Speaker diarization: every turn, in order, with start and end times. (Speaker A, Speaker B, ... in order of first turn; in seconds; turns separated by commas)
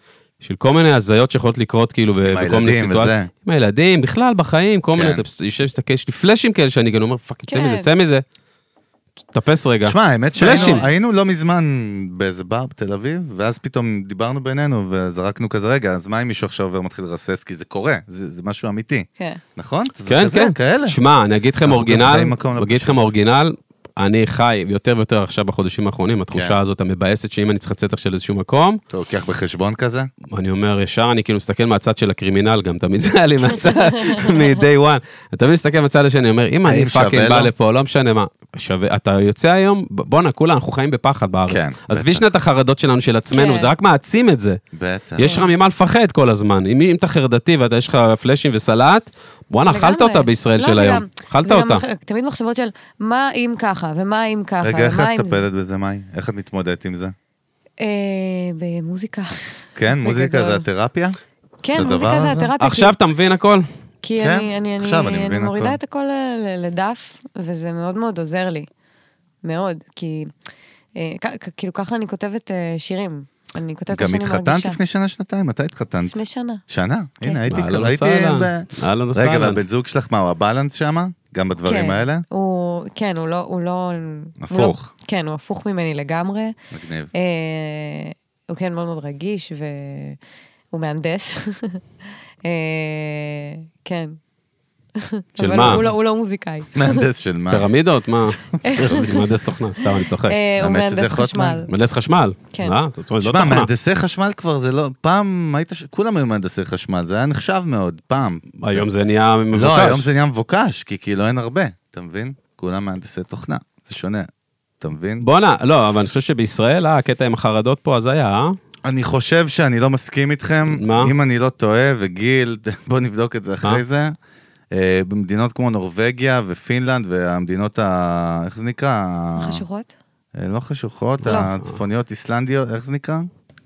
Speaker A: 0.4-8.2, Speaker B: 2.2-3.3, Speaker B: 4.9-5.2, Speaker C: 7.5-7.9, Speaker A: 9.3-10.8, Speaker B: 9.8-21.0, Speaker C: 10.3-10.8, Speaker A: 20.1-28.8, Speaker B: 21.6-23.1, Speaker B: 26.3-26.6, Speaker B: 28.9-30.1, Speaker A: 30.3-44.6, Speaker C: 34.0-34.3, Speaker B: 36.6-37.5, Speaker B: 41.5-42.3, Speaker C: 43.3-43.7, Speaker B: 44.7-45.4, Speaker A: 45.2-51.8, Speaker C: 45.2-45.5, Speaker C: 49.7-55.4, Speaker B: 54.6-57.1, Speaker C: 57.8-60.6, Speaker B: 59.8-61.2, Speaker C: 61.6-63.0, Speaker B: 61.7-62.5, Speaker A: 62.6-63.6, Speaker C: 64.0-68.7, Speaker B: 64.2-65.8, Speaker C: 69.4-70.3, Speaker C: 71.0-74.8, Speaker B: 73.9-82.2, Speaker C: 76.1-76.6, Speaker A: 77.5-79.6, Speaker C: 81.6-86.5, Speaker B: 84.4-84.9, Speaker B: 86.7-87.1, Speaker C: 87.1-90.2, Speaker C: 90.7-91.8, Speaker C: 92.4-94.2, Speaker C: 95.0-97.0, Speaker A: 95.4-95.8, Speaker B: 95.5-95.9, Speaker B: 96.7-97.7, Speaker A: 97.5-100.4, Speaker B: 98.3-98.9, Speaker C: 98.6-99.3, Speaker C: 100.2-101.7, Speaker B: 100.6-101.7, Speaker A: 101.7-103.7, Speaker C: 102.5-102.8, Speaker B: 103.2-108.9, Speaker A: 108.6-110.1, Speaker B: 109.5-114.3, Speaker B: 114.8-115.3, Speaker A: 115.2-118.6, Speaker B: 118.8-124.1, Speaker A: 120.7-121.1, Speaker B: 124.7-129.6, Speaker C: 129.4-129.9, Speaker B: 130.3-133.3, Speaker C: 131.2-131.5, Speaker A: 131.4-131.8